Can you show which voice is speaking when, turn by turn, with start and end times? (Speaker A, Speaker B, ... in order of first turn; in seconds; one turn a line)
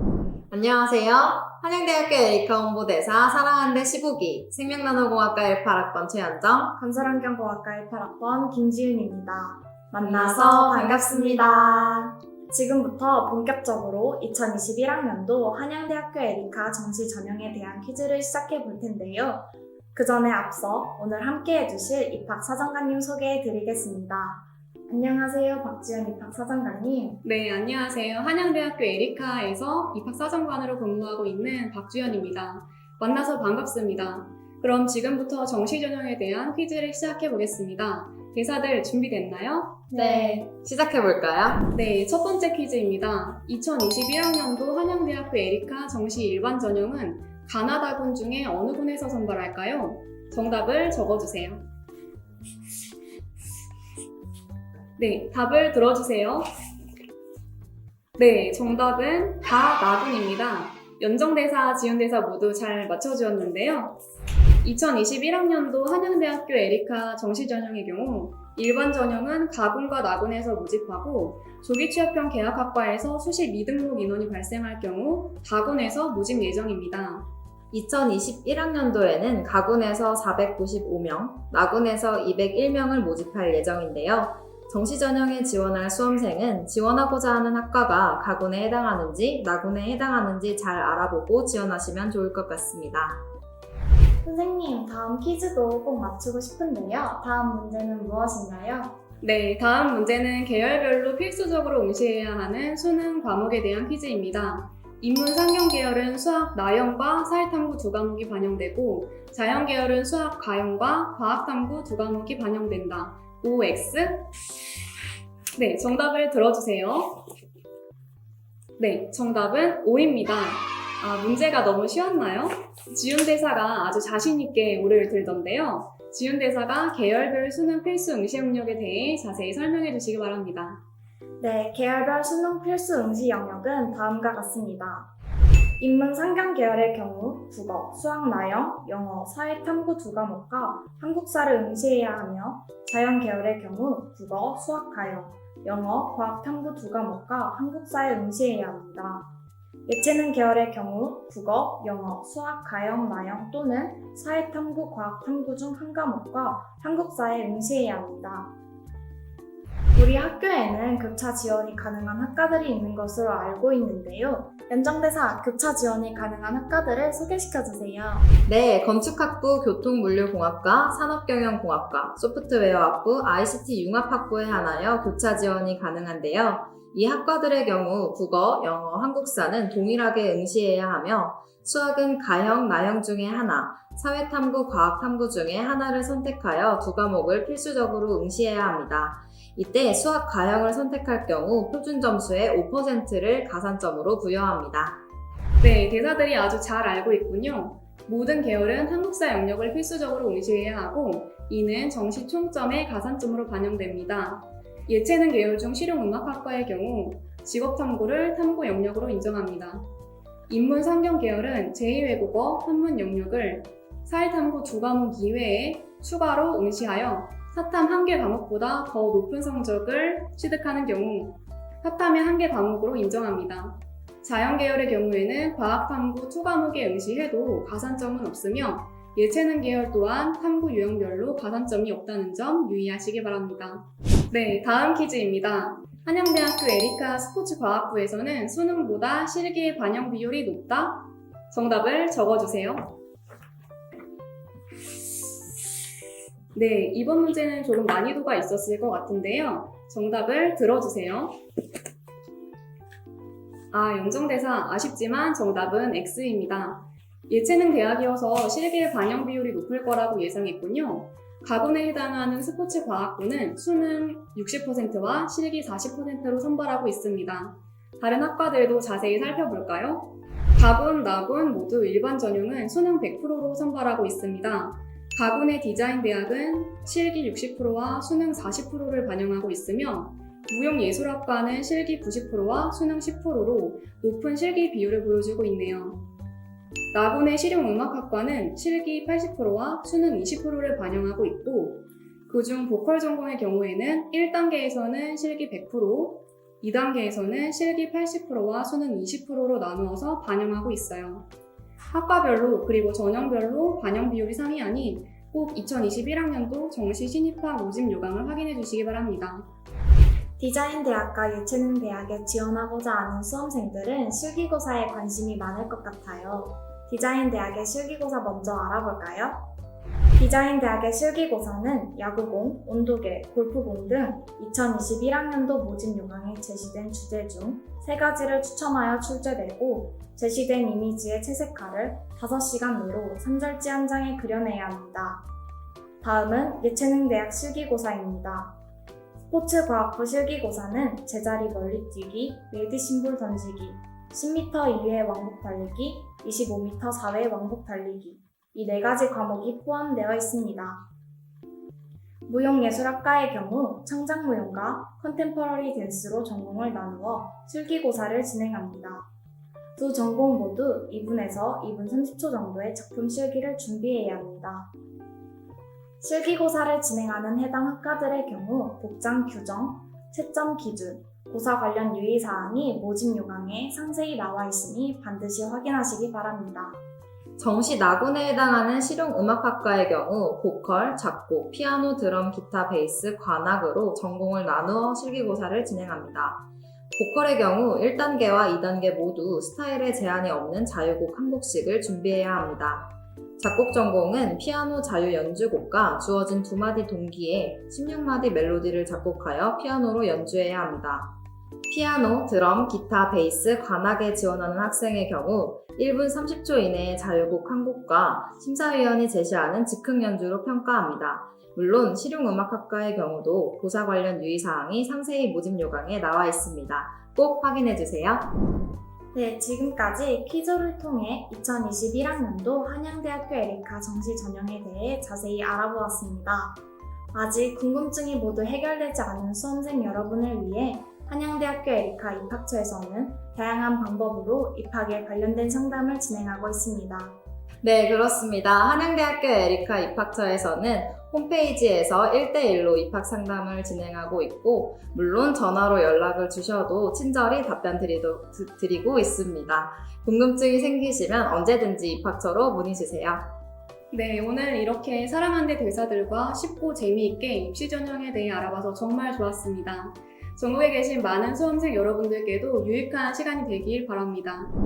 Speaker A: 0.5-6.8
Speaker B: 6.8-11.9
Speaker A: 10.0-12.2
Speaker B: 12.5-27.2
Speaker C: 27.2-39.9
Speaker B: 39.9-40.4
Speaker A: 39.9-41.7
Speaker C: 41.7-51.6
Speaker C: 55.0-56.5
Speaker C: 58.2-64.0
Speaker C: 64.6-77.3
Speaker A: 77.7-93.2
Speaker B: 94.2-99.0
Speaker C: 99.2-114.3
Speaker C: 115.6-117.3
Speaker C: 118.8-130.8
Speaker B: 131.4-135.1
Speaker B: 135.8-149.3
Speaker B: 149.9-158.5
Speaker B: 160.0-168.3
Speaker A: 168.5-195.0
Speaker C: 195.6-209.8
Speaker C: 210.5-243.0
Speaker C: 246.5-251.4
Speaker C: 253.7-286.0
Speaker C: 286.9-301.3
Speaker C: 301.9-309.5
Speaker B: 310.4-319.5
Speaker B: 320.2-335.2
Speaker B: 336.0-338.6
Speaker B: 339.3-350.9
Speaker B: 352.3-359.1
Speaker B: 359.8-364.7
Speaker B: 366.0-376.8
Speaker A: 377.4-401.1
Speaker A: 401.7-418.3
Speaker B: 419.1-426.6
Speaker B: 427.1-437.1
Speaker A: 437.6-453.3
Speaker C: 453.9-464.5